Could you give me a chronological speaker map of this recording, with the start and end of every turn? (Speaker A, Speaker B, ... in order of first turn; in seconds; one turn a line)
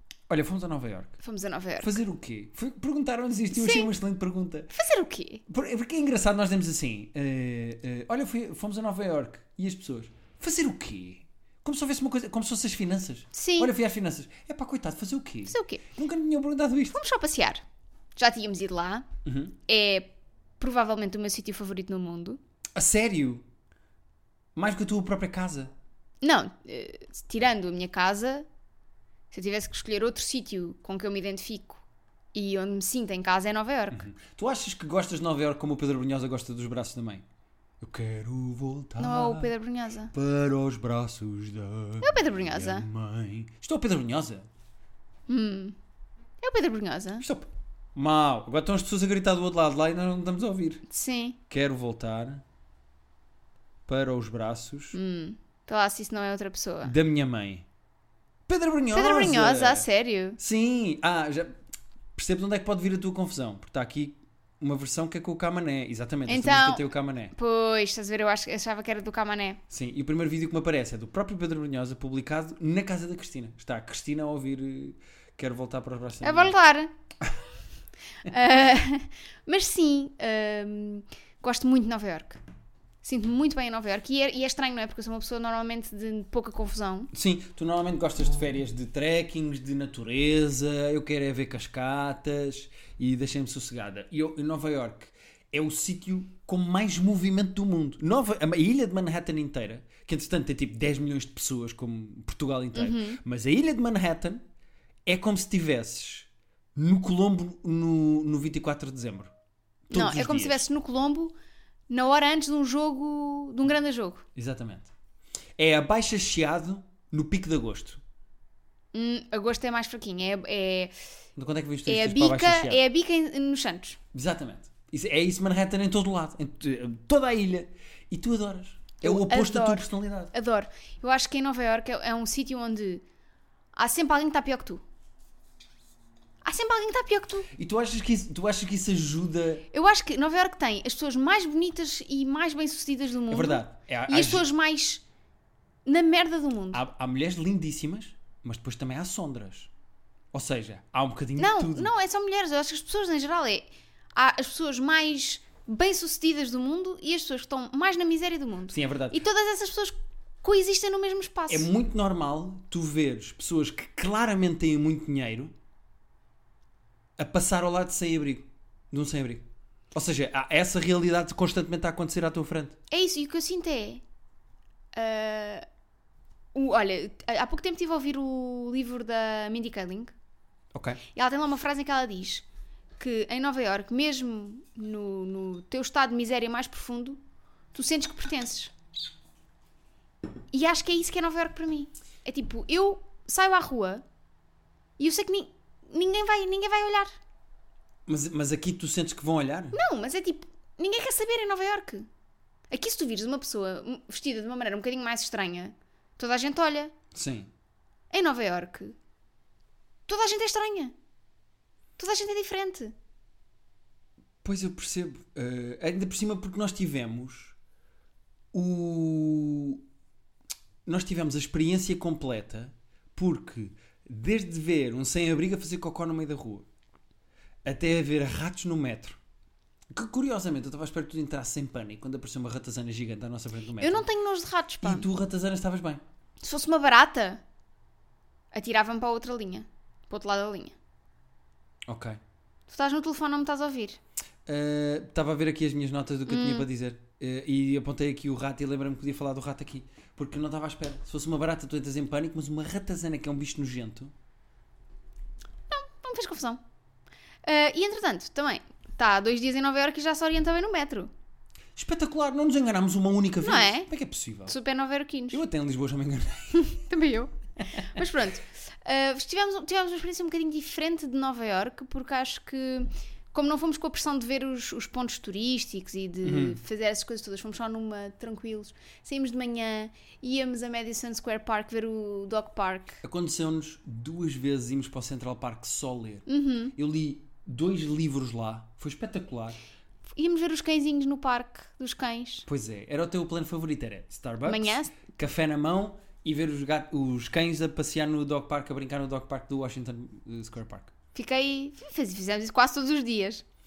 Speaker A: 0.3-1.2
Speaker B: 1.2-2.0
Speaker A: 1.8-4.8
Speaker B: 3.5-3.9
Speaker B: 4.7-5.4
Speaker A: 5.5-17.0
Speaker B: 13.3-13.7
Speaker B: 15.4-15.8
Speaker B: 16.9-17.6
Speaker B: 18.1-19.1
Speaker A: 19.2-19.6
Speaker B: 19.7-22.4
Speaker A: 22.7-23.4
Speaker A: 24.6-25.7
Speaker B: 26.2-28.4
Speaker B: 29.3-34.0
Speaker A: 33.9-37.2
Speaker A: 37.8-39.5
Speaker B: 39.0-40.1
Speaker A: 40.1-44.5
Speaker B: 42.0-42.9
Speaker B: 45.3-45.7
Speaker B: 46.4-47.2
Speaker A: 47.2-50.8
Speaker B: 50.9-51.4
Speaker A: 51.5-52.4
Speaker A: 53.9-55.0
Speaker B: 54.9-56.9
Speaker A: 56.8-57.6
Speaker A: 58.5-59.9
Speaker B: 58.9-60.4
Speaker A: 60.4-61.6
Speaker A: 62.1-67.3
Speaker B: 66.3-69.6
Speaker A: 69.7-76.5
Speaker B: 76.2-76.9
Speaker B: 78.2-82.4
Speaker B: 83.0-87.1
Speaker A: 87.1-104.4
Speaker B: 102.7-103.2
Speaker A: 105.0-109.3
Speaker A: 109.9-110.7
Speaker B: 109.9-111.3
Speaker B: 111.9-114.2
Speaker A: 114.3-114.9
Speaker A: 115.6-118.0
Speaker B: 118.9-120.9
Speaker A: 121.4-122.8
Speaker B: 121.8-124.0
Speaker A: 124.1-130.3
Speaker B: 129.0-133.0
Speaker B: 133.8-134.8
Speaker B: 136.4-137.5
Speaker A: 137.5-139.7
Speaker B: 139.7-145.0
Speaker A: 143.3-144.4
Speaker B: 145.8-146.8
Speaker A: 146.7-149.7
Speaker A: 150.3-151.9
Speaker B: 151.4-161.7
Speaker A: 158.7-159.2
Speaker A: 161.5-165.5
Speaker A: 167.2-172.8
Speaker B: 172.9-174.0
Speaker B: 174.9-175.7
Speaker B: 176.5-180.1
Speaker A: 180.7-181.0
Speaker B: 181.1-182.4
Speaker B: 183.0-187.2
Speaker B: 187.7-188.7
Speaker B: 190.5-194.0
Speaker B: 195.0-197.2
Speaker A: 198.1-199.8
Speaker B: 199.7-202.1
Speaker B: 202.7-206.9
Speaker A: 207.1-207.5
Speaker B: 208.1-208.9
Speaker B: 210.1-210.9
Speaker B: 212.0-212.9
Speaker A: 214.4-217.6
Speaker A: 218.5-219.8
Speaker A: 220.8-226.7
Speaker A: 227.6-229.2
Speaker A: 229.9-234.1
Speaker B: 233.8-235.1
Speaker A: 234.8-236.0
Speaker B: 236.4-237.4
Speaker B: 238.5-240.7
Speaker A: 241.8-242.2
Speaker B: 242.7-244.0
Speaker A: 244.4-254.1
Speaker B: 246.3-246.7
Speaker B: 255.7-256.6
Speaker B: 257.4-261.1
Speaker A: 261.8-264.6
Speaker B: 263.4-263.9
Speaker B: 264.5-265.4
Speaker A: 265.3-266.7
Speaker B: 266.5-283.0
Speaker A: 276.2-276.6
Speaker A: 283.0-289.6
Speaker B: 286.2-286.7
Speaker B: 290.1-292.5
Speaker A: 292.5-300.9
Speaker B: 294.4-295.0
Speaker B: 301.1-303.4